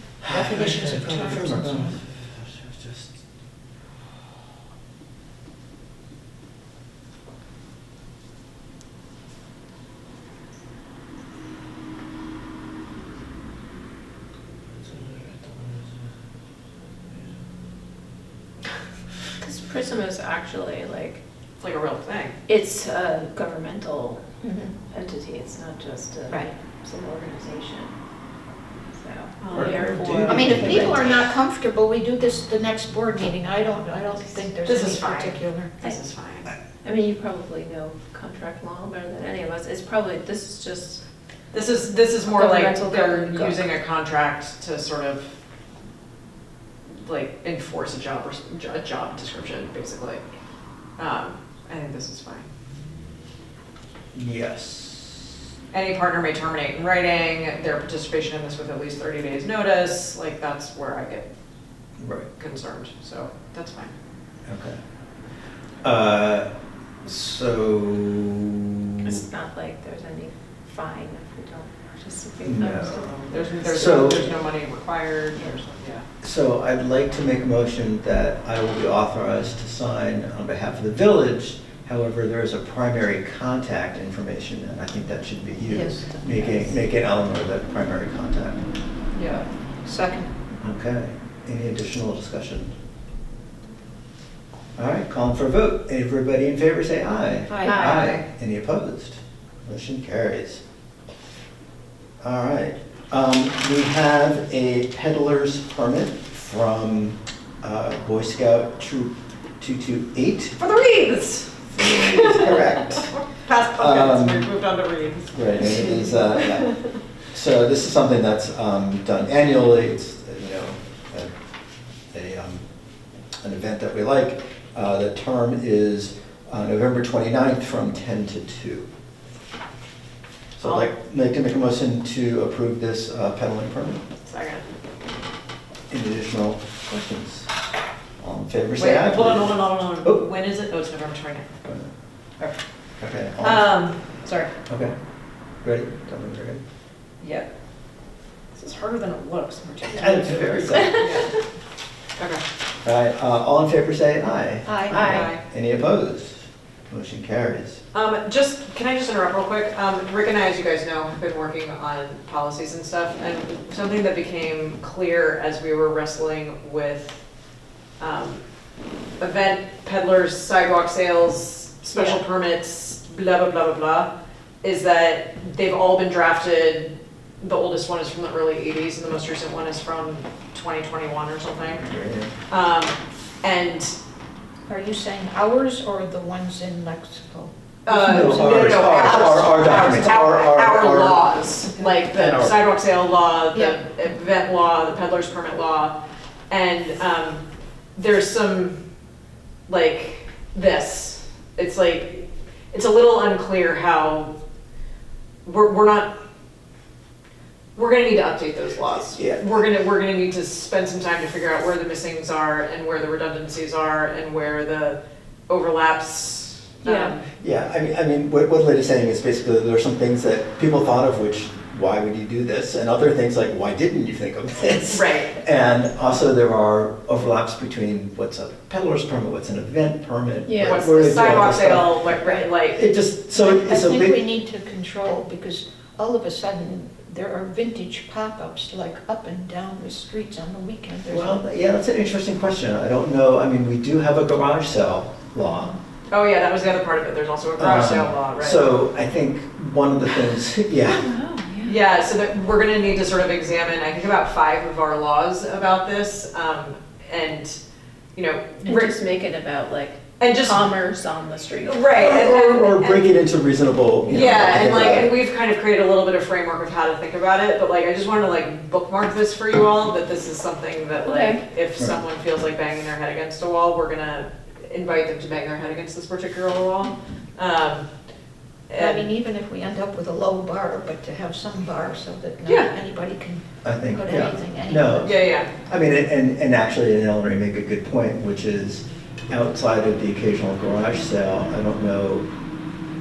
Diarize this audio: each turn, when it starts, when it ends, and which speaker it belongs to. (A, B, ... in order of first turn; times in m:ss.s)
0:00.2-0:02.0 A
0:00.2-0:03.2 B
0:14.8-0:16.1 B
0:17.1-0:17.4 B
0:19.4-0:21.2 C
0:21.6-0:22.4 D
0:22.5-0:24.2 C
0:24.4-0:24.7 A
0:24.8-0:27.9 C
0:28.9-0:31.0 C
0:29.4-0:29.9 D
0:29.5-0:31.2 B
0:30.2-0:35.7 A
0:34.6-0:36.5 D
0:36.8-0:41.0 C
0:41.5-0:45.3 D
0:42.3-0:43.7 C
0:47.0-0:50.2 D
0:51.0-0:52.5 D
0:54.1-0:55.3 B
0:55.7-1:01.3 D
1:02.0-1:02.3 B
1:02.4-1:03.9 D
1:04.5-1:04.8 B
1:05.8-1:06.5 B
1:07.0-1:09.2 B
1:09.0-1:14.4 C
1:12.4-1:14.2 B
1:13.3-1:16.1 D
1:16.2-1:28.6 B
1:25.7-1:26.8 A
1:29.8-1:30.3 A
1:30.6-1:32.7 B
1:34.8-1:40.6 B
1:37.5-1:37.9 A
1:37.6-1:38.1 C
1:37.7-1:38.2 D
1:42.2-1:50.6 B
1:50.6-1:55.6 D
1:51.7-1:53.1 B
1:53.8-1:54.5 B
1:55.3-1:56.7 B
1:57.3-2:01.3 B
2:02.1-2:02.6 B
2:03.4-2:08.9 B
2:10.6-2:14.0 B
2:10.6-2:10.9 D
2:14.2-2:14.6 D
2:15.9-2:17.5 B
2:18.2-2:20.2 B
2:18.8-2:21.5 D
2:21.6-2:21.9 B
2:23.0-2:23.7 B
2:23.4-2:24.5 D
2:24.7-2:24.9 B
2:25.6-2:26.6 B
2:27.2-2:27.5 D
2:28.6-2:31.3 C
2:29.8-2:31.2 B
2:31.0-2:31.4 D
2:32.2-2:32.4 D
2:32.8-2:37.8 B
2:34.7-2:35.2 A
2:34.9-2:35.3 C
2:35.0-2:35.4 D
2:37.9-2:47.2 D
2:48.0-2:48.4 D
2:49.2-3:01.8 D
3:01.8-3:02.3 B
3:02.5-3:04.0 D
3:04.7-3:08.7 A
3:07.8-3:16.0 D
3:08.0-3:11.3 B
3:12.1-3:12.6 B
3:16.5-3:17.4 D
3:17.9-3:18.8 D
3:19.7-3:24.3 D
3:25.4-3:26.2 D
3:27.8-3:37.2 D
3:29.2-3:29.5 B
3:36.8-3:37.1 C
3:37.4-3:54.2 B
3:44.9-3:45.4 D
3:50.4-3:50.9 C
3:50.6-3:52.8 D
3:53.3-4:01.4 A
4:01.1-4:05.8 B
4:06.1-4:08.7 D
4:07.6-4:11.1 B
4:10.8-4:11.8 C
4:11.6-4:17.6 D
4:18.1-4:18.9 D
4:18.6-4:21.9 C
4:20.2-4:20.8 D
4:21.6-4:23.1 D
4:21.9-4:25.2 B
4:24.1-4:37.9 D
4:31.0-4:31.4 C
4:38.7-4:39.1 D
4:38.8-4:45.1 A
4:42.4-4:42.7 D
4:43.6-4:52.2 B
4:45.0-4:45.5 D